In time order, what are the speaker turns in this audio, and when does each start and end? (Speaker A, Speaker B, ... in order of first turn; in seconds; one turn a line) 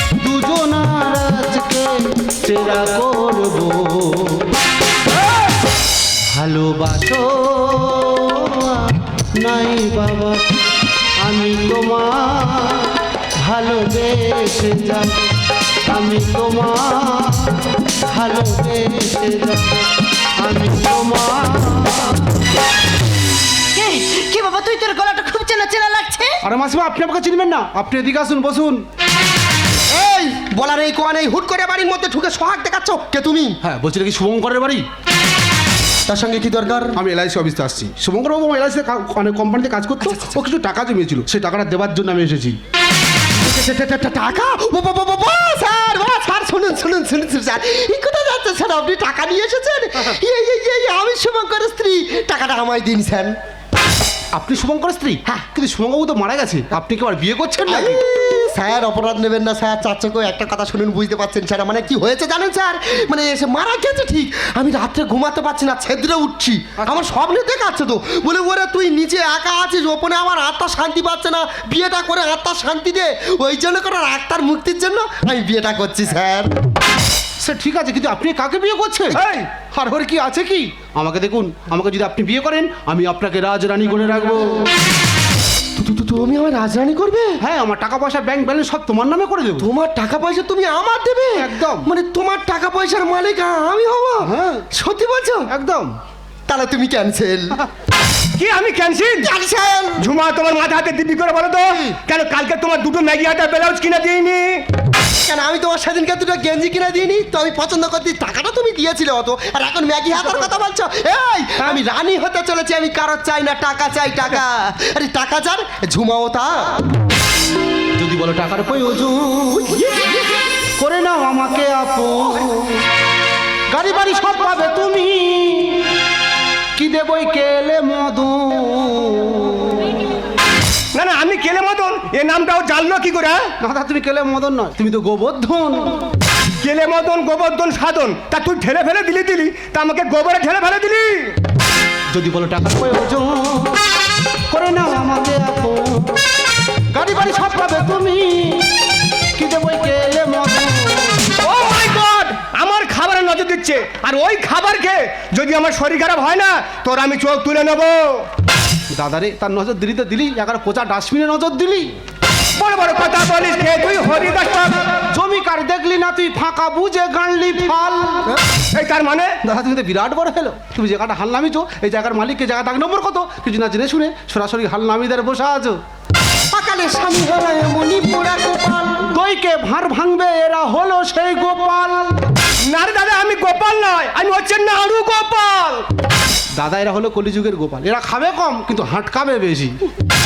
Speaker A: 0.2-4.5
Speaker A: 6.3-10.6
Speaker A: 11.2-15.2
Speaker A: 15.9-22.3
Speaker B: 23.8-26.4
Speaker A: 26.4-28.9
Speaker C: 29.9-33.6
Speaker A: 33.6-34.9
Speaker C: 36.1-37.0
Speaker A: 37.0-42.6
Speaker C: 43.4-53.4
Speaker A: 54.3-58.0
Speaker C: 57.7-76.5
Speaker A: 77.4-84.7
Speaker C: 85.8-87.4
Speaker A: 87.4-89.7
Speaker C: 89.6-95.5
Speaker A: 91.4-91.9
Speaker A: 94.2-94.7
Speaker A: 95.5-95.9
Speaker C: 96.5-97.6
Speaker D: 98.4-99.3
Speaker C: 99.2-100.1
Speaker D: 100.0-104.6
Speaker C: 101.7-102.0
Speaker C: 105.2-116.8
Speaker A: 118.0-119.9
Speaker A: 120.8-122.8
Speaker A: 123.7-125.9
Speaker A: 126.8-129.9
Speaker D: 130.9-133.5
Speaker A: 133.6-136.0
Speaker D: 136.6-141.3
Speaker A: 142.1-143.8
Speaker A: 144.5-146.2
Speaker A: 146.9-148.7
Speaker A: 149.4-151.3
Speaker D: 151.4-158.3
Speaker A: 158.9-161.9
Speaker D: 162.6-164.8
Speaker A: 165.1-168.4
Speaker D: 168.7-169.4
Speaker A: 169.4-175.8
Speaker C: 176.5-179.1
Speaker A: 179.1-182.3
Speaker D: 182.6-185.9
Speaker A: 186.6-189.8